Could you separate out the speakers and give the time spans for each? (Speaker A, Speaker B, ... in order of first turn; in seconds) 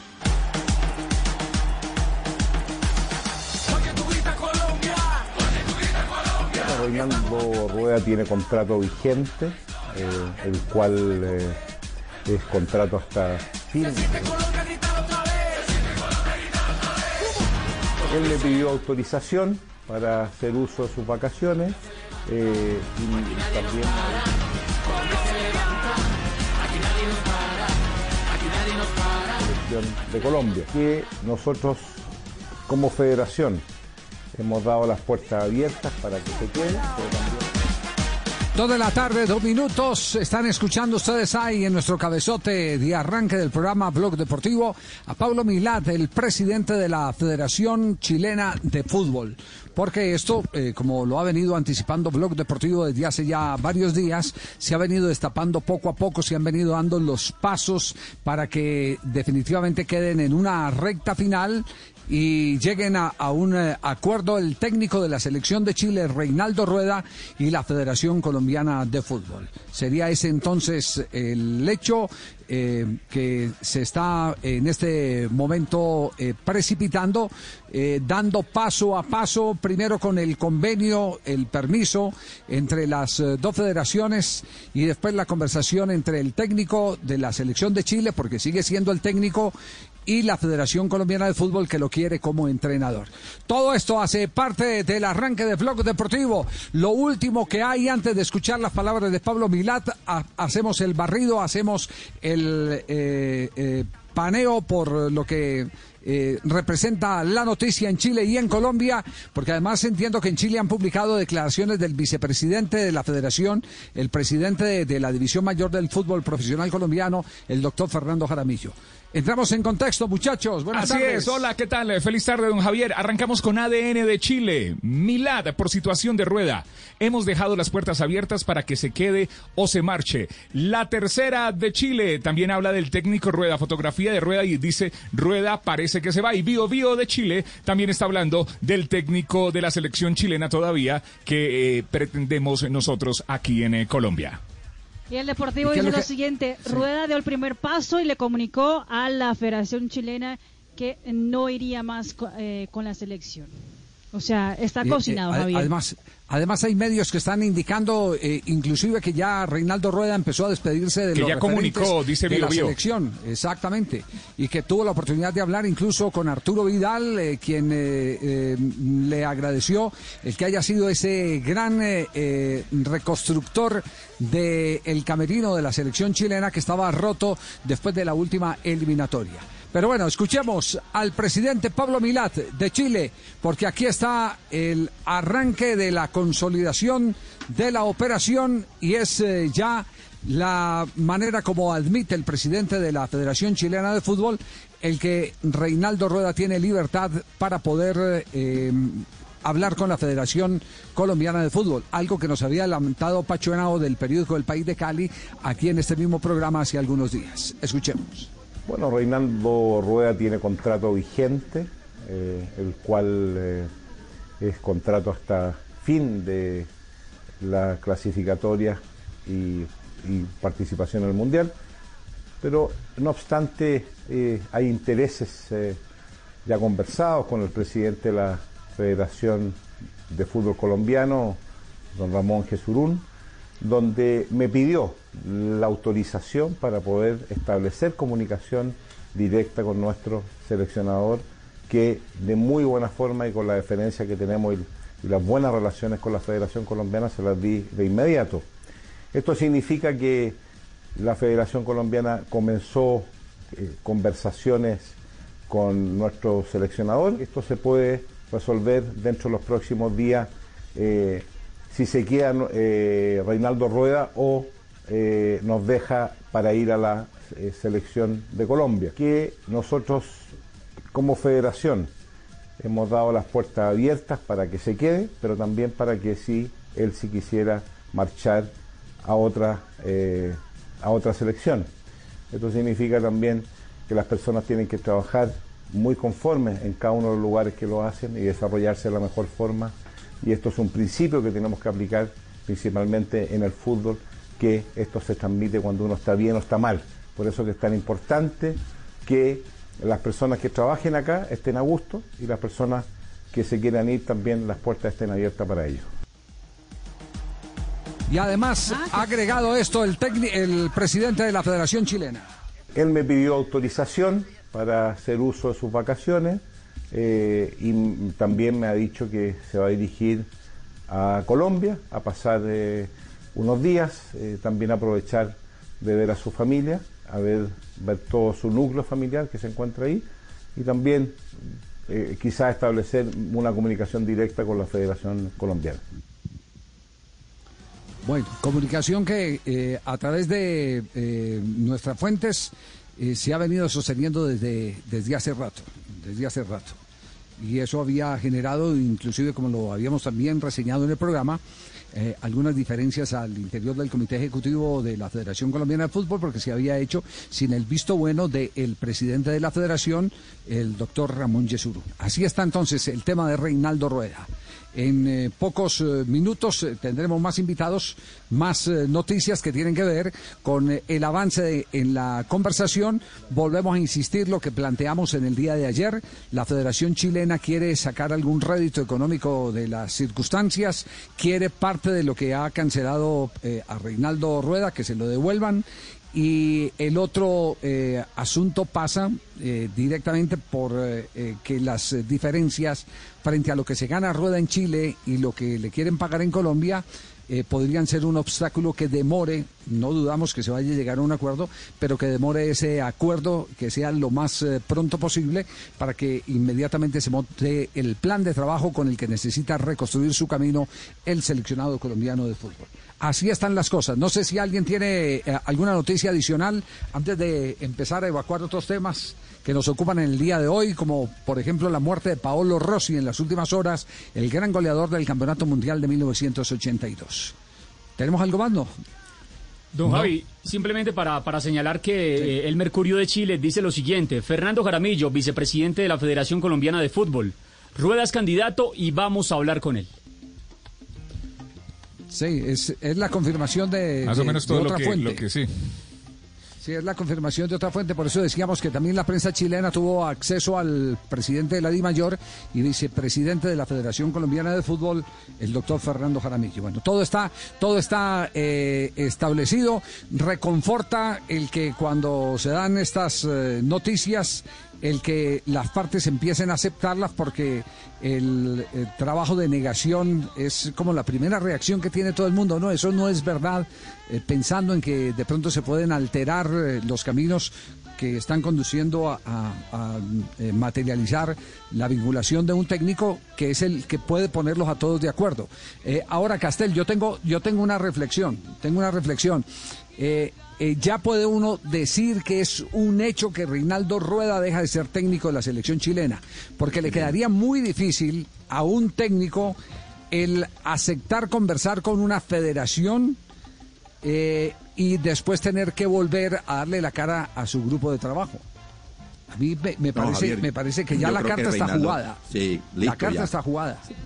Speaker A: 6.6-11.6, 12.3-14.4, 18.0-24.3, 29.4-32.0, 32.7-33.6, 34.3-37.5, 208.7-213.7, 214.4-216.7, 217.4-221.5, 222.4-225.8, 226.4-229.6, 230.1-231.4, 231.9-233.1, 233.6-248.5, 249.1-250.4, 251.0-255.0, 255.5-270.3, 270.9-271.9, 272.6-278.5, 279.0-281.7, 282.3-305.9, 312.8-320.3, 320.9-331.2, 331.9-335.8
Speaker B: 38.5-89.5, 90.1-121.5, 145.6-146.1, 154.8-208.3, 308.1-312.3, 338.0-346.8, 347.4-351.4, 351.9-427.4, 428.0-428.7, 442.1-445.2, 446.6-489.5, 490.0-499.6, 500.1-503.2, 504.0-508.4, 509.3-512.2, 512.8-513.9
Speaker C: 120.7-144.4, 161.2-162.8, 429.9-430.1, 444.1-445.5
Speaker D: 145.1-153.5, 154.1-155.7
Speaker E: 429.8-439.9
Speaker F: 509.9-513.3